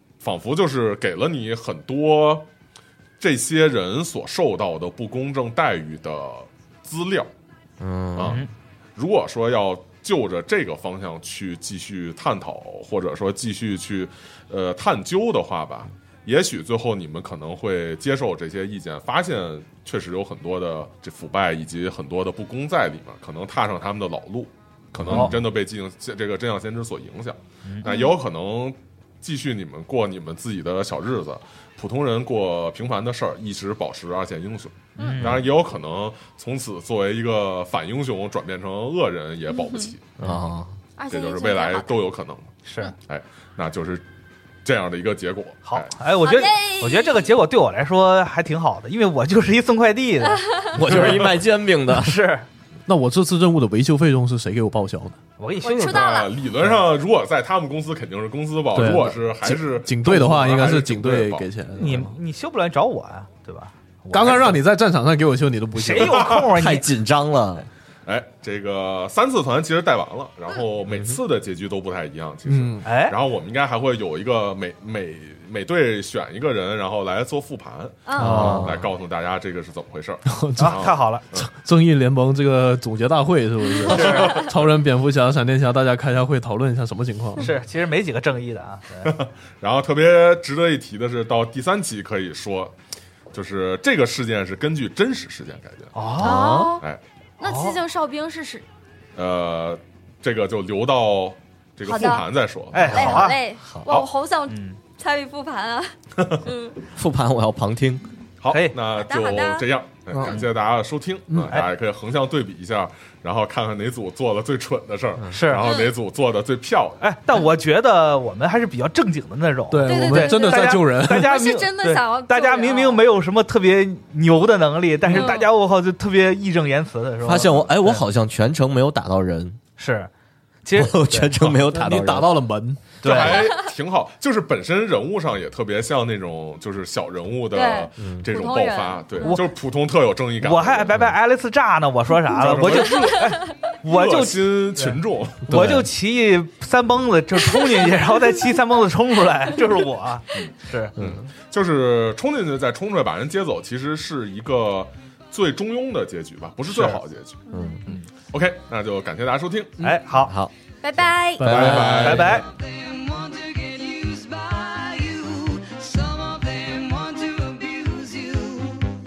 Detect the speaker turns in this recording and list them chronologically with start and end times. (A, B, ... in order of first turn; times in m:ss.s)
0:00.2-0:02.5 A
0:03.2-0:07.3 A
0:07.8-0:08.4 B
0:08.2-0:08.4 A
0:09.0-0:40.1 A
0:25.0-0:25.3 B
0:25.1-0:25.3 C
0:27.8-0:28.1 D
0:35.0-0:35.3 D
0:35.0-0:35.4 C
0:39.5-0:39.9 D
0:40.2-0:40.8 B
0:41.0-0:42.0 D
0:41.1-0:42.5 A
0:42.6-0:42.9 C
0:43.1-0:44.1 A
0:44.6-0:45.9 A
0:45.6-0:51.3 C
0:46.2-0:47.3 D
0:50.7-0:52.2 B
0:50.8-0:51.3 A
0:51.9-0:52.4 C
0:52.9-0:55.2 E
0:55.4-0:56.1 C
0:55.6-0:56.3 D
0:55.8-1:02.0 A
0:58.7-1:02.1 E
1:01.7-1:04.6 C
1:04.1-1:06.1 E
1:05.7-1:06.9 C
1:06.0-1:06.5 A
1:06.5-1:07.7 B
1:08.0-1:21.5 A
1:10.9-1:11.2 B
1:12.4-1:12.8 E
1:12.8-1:13.2 C
1:18.0-1:18.5 D
1:18.2-1:18.8 E
1:18.2-1:18.9 B
1:20.3-1:20.8 E
1:20.6-1:21.2 C
1:21.3-1:27.5 E
1:23.8-1:24.7 A
1:23.9-1:24.4 C
1:27.4-1:29.1 C
1:29.0-1:32.8 A
1:33.3-1:35.9 A
1:35.9-1:36.6 C
1:36.2-1:36.8 B
1:36.2-1:36.8 D
1:37.4-1:38.6 D
1:37.4-1:37.8 C
1:39.2-1:43.2 A
1:41.8-1:42.3 D
1:42.7-1:43.4 C
1:42.8-1:45.9 D
1:42.9-1:43.9 B
1:44.5-1:44.8 C
1:46.2-1:46.4 A
1:46.4-1:46.8 D
1:46.9-1:48.0 B
1:48.4-1:57.0 A
1:48.5-1:48.8 C
1:49.0-1:49.7 D
1:50.1-1:50.4 E
1:51.3-1:51.6 E
1:55.3-1:55.7 C
1:55.6-1:55.9 D
1:57.0-2:08.0 C
1:59.7-2:01.4 E
1:59.8-2:03.0 D
2:05.1-2:05.5 D
2:07.2-2:09.6 B
2:09.8-2:10.1 C
2:10.6-2:11.6 C
2:10.7-2:12.4 B
2:11.6-2:13.0 E
2:13.0-2:13.5 C
2:13.0-2:21.0 A
2:17.5-2:19.4 D
2:18.0-2:18.3 B
2:19.2-2:19.5 C
2:20.4-2:30.9 C
2:22.3-2:25.7 A
2:25.5-2:25.8 E
2:30.3-2:39.9 A
2:31.0-2:31.3 B
2:36.7-2:37.0 C
2:37.5-2:37.8 D
2:37.5-2:37.8 B
2:39.8-2:40.3 C
2:40.2-2:40.5 B
2:40.8-2:41.6 D
2:41.4-2:42.4 E
2:41.4-2:42.0 B
2:41.5-2:42.3 A
2:41.6-2:42.5 C
2:42.9-2:48.7 D